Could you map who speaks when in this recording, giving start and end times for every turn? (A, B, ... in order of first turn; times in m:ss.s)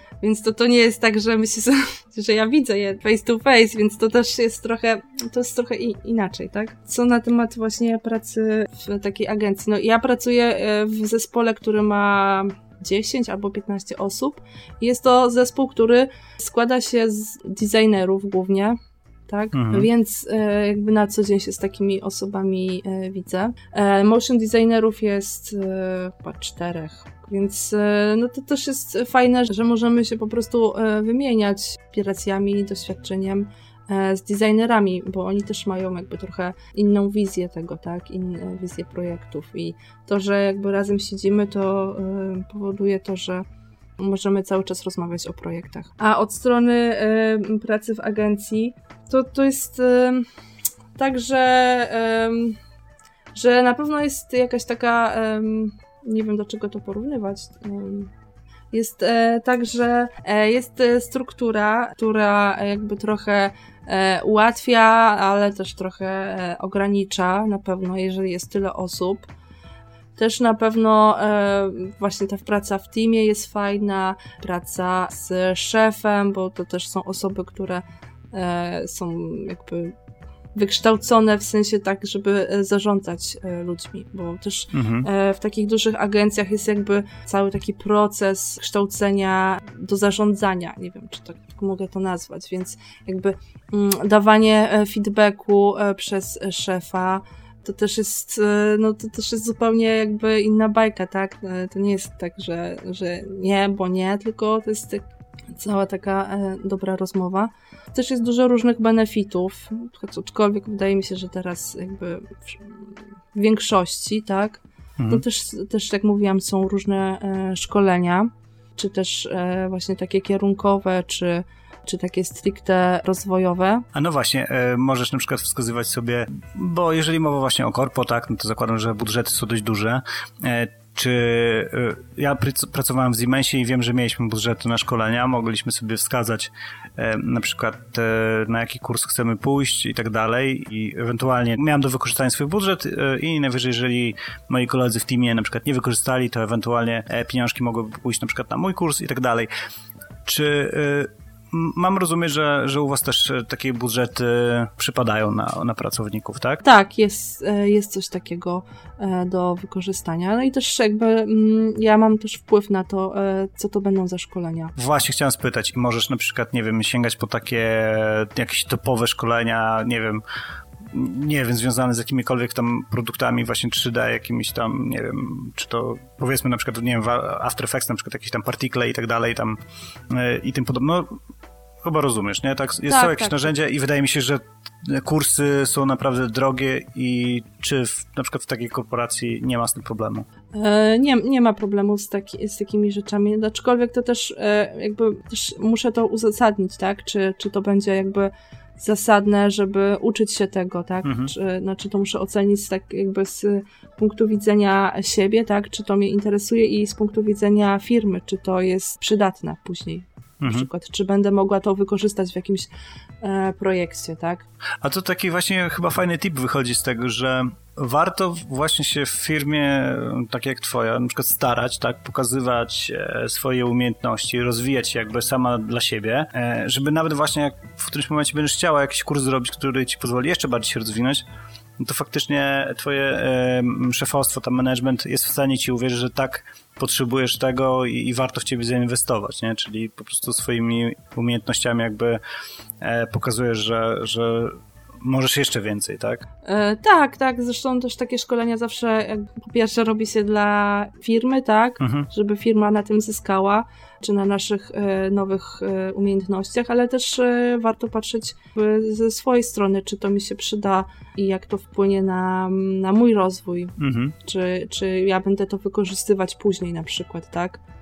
0:00.2-0:43.4 A
0:19.5-0:19.9 B
0:44.0-0:50.3 A
0:51.0-0:52.6 A
0:53.4-0:58.1 A
0:58.7-1:09.3 A
1:10.2-1:20.0 A
1:20.6-2:03.9 A
1:24.7-1:25.1 B
1:55.0-1:55.2 B
2:03.9-2:29.5 B
2:30.2-2:36.6 B
2:36.6-2:44.7 A
2:44.8-2:50.2 B
2:50.9-2:59.6 B
3:00.1-3:01.2 B
3:01.8-3:10.3 B
3:02.9-3:03.5 A
3:10.6-3:32.7 A
3:21.0-3:21.3 B
3:30.4-3:30.7 B
3:33.2-3:34.4 A
3:34.8-3:51.3 B
3:51.8-4:02.2 B
4:02.8-4:06.3 B
4:06.4-4:27.6 A
4:11.8-4:12.1 B
4:23.8-4:24.2 B